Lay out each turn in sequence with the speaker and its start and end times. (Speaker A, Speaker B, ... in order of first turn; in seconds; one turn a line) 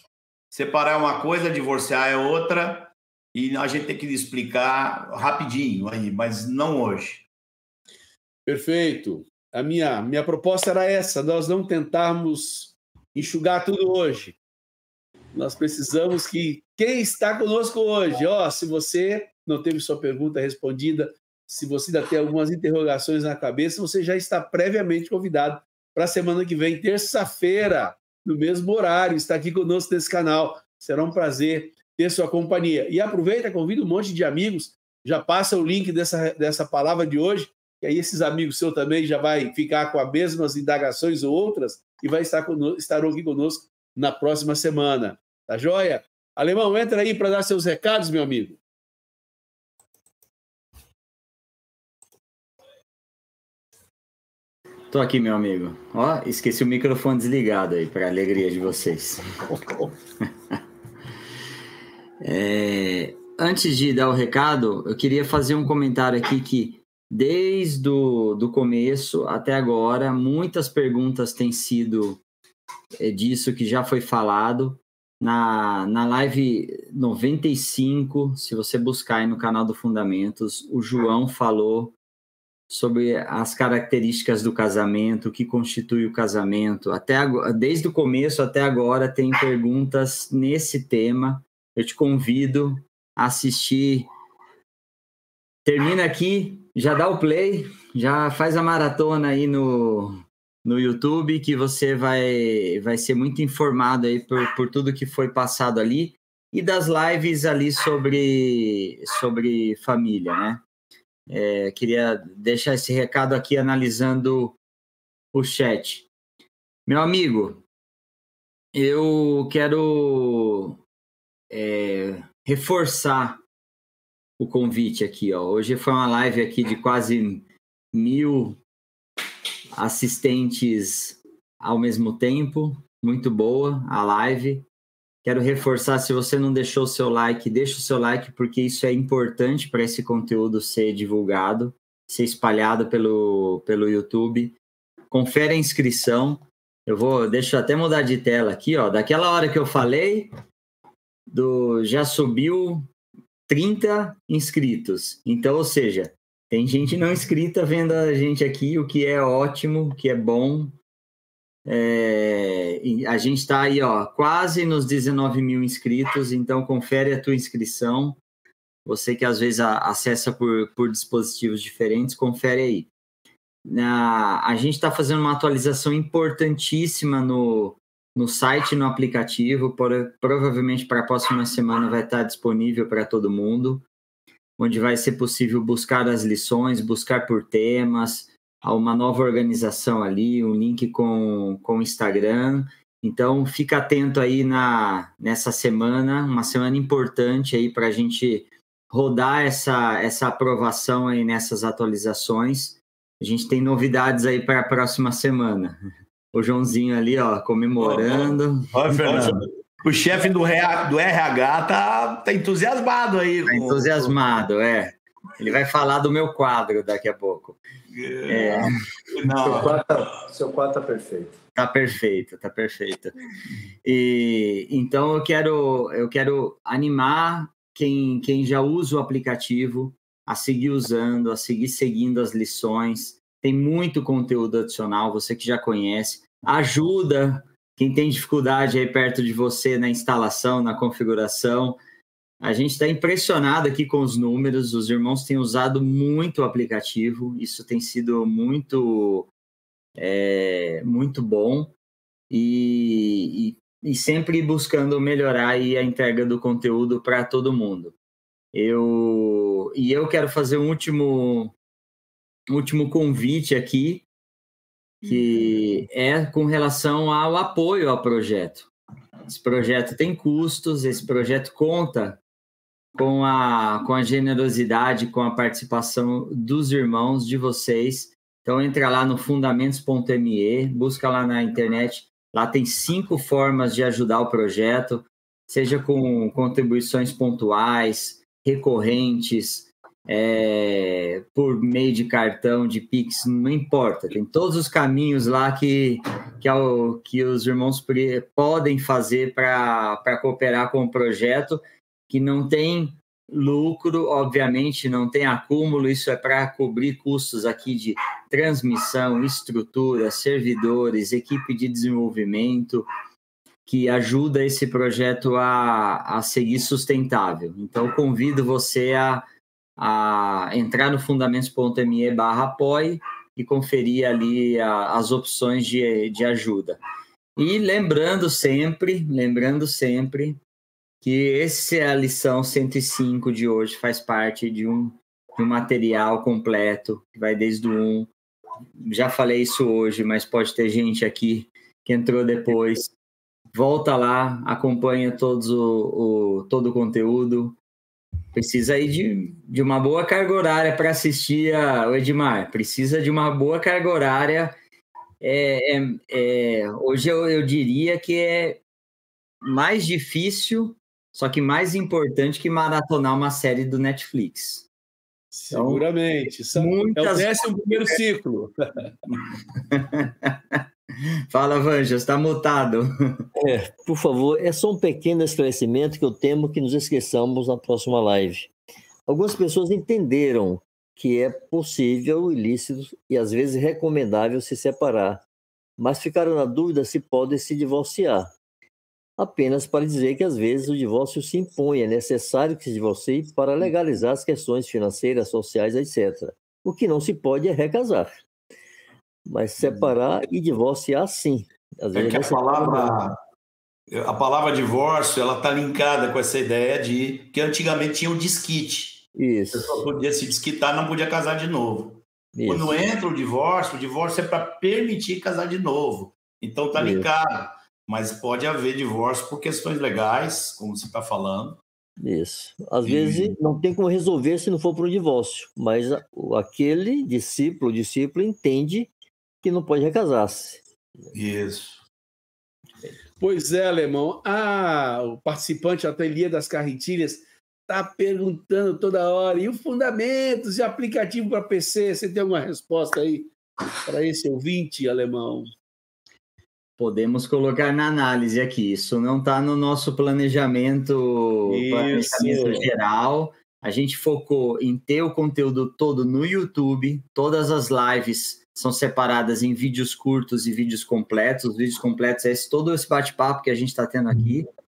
Speaker A: 0.5-7.3
Speaker B: 8.5-14.4
Speaker B: 15.3-48.6
Speaker C: 54.9-59.3
Speaker C: 62.2-72.2
Speaker C: 73.0-82.0
Speaker C: 82.7-94.1
Speaker C: 95.7-110.6
Speaker C: 111.3-114.6
Speaker C: 115.3-116.1
Speaker C: 116.9-117.6
Speaker C: 118.7-120.8
Speaker C: 121.5-123.4
Speaker C: 124.4-128.6
Speaker C: 129.8-134.7
Speaker C: 135.2-144.6
Speaker C: 145.1-150.3
Speaker C: 151.3-152.9
Speaker C: 153.5-160.8
Speaker C: 161.7-168.2
Speaker C: 168.9-172.9
Speaker C: 173.7-183.8
Speaker C: 184.6-205.8
Speaker C: 206.3-209.4
Speaker A: 207.8-214.2
Speaker C: 213.5-217.6
Speaker A: 217.9-219.8
Speaker C: 218.3-218.7
Speaker D: 219.4-221.4
Speaker C: 221.6-223.1
Speaker C: 223.8-241.8
Speaker C: 242.4-249.3
Speaker C: 250.0-251.7
Speaker C: 252.3-257.9
Speaker C: 258.5-261.5
Speaker C: 262.5-264.1
Speaker C: 265.0-268.7
Speaker C: 269.3-272.2
Speaker C: 272.9-312.9
Speaker C: 313.7-319.3
Speaker C: 319.8-326.8
Speaker C: 327.4-330.4
Speaker C: 331.0-338.1
Speaker C: 338.8-342.9
Speaker C: 343.5-347.6
Speaker C: 348.4-354.6
Speaker C: 355.2-358.6
Speaker C: 359.4-364.7
Speaker B: 365.3-368.9
Speaker C: 365.5-365.9
Speaker C: 366.6-368.0
Speaker C: 369.7-370.3
Speaker C: 371.3-373.2
Speaker E: 373.4-378.5
Speaker E: 379.1-385.2
Speaker E: 385.8-388.3
Speaker E: 389.2-398.2
Speaker E: 399.3-403.0
Speaker A: 401.9-403.1
Speaker A: 403.9-421.6
Speaker E: 409.2-409.9
Speaker E: 412.4-412.8
Speaker E: 416.8-417.1
Speaker E: 422.0-428.9
Speaker A: 422.8-423.4
Speaker E: 429.4-430.6
Speaker A: 431.1-431.8
Speaker B: 433.2-443.3
Speaker B: 443.8-445.5
Speaker C: 446.8-464.5
Speaker B: 451.5-452.7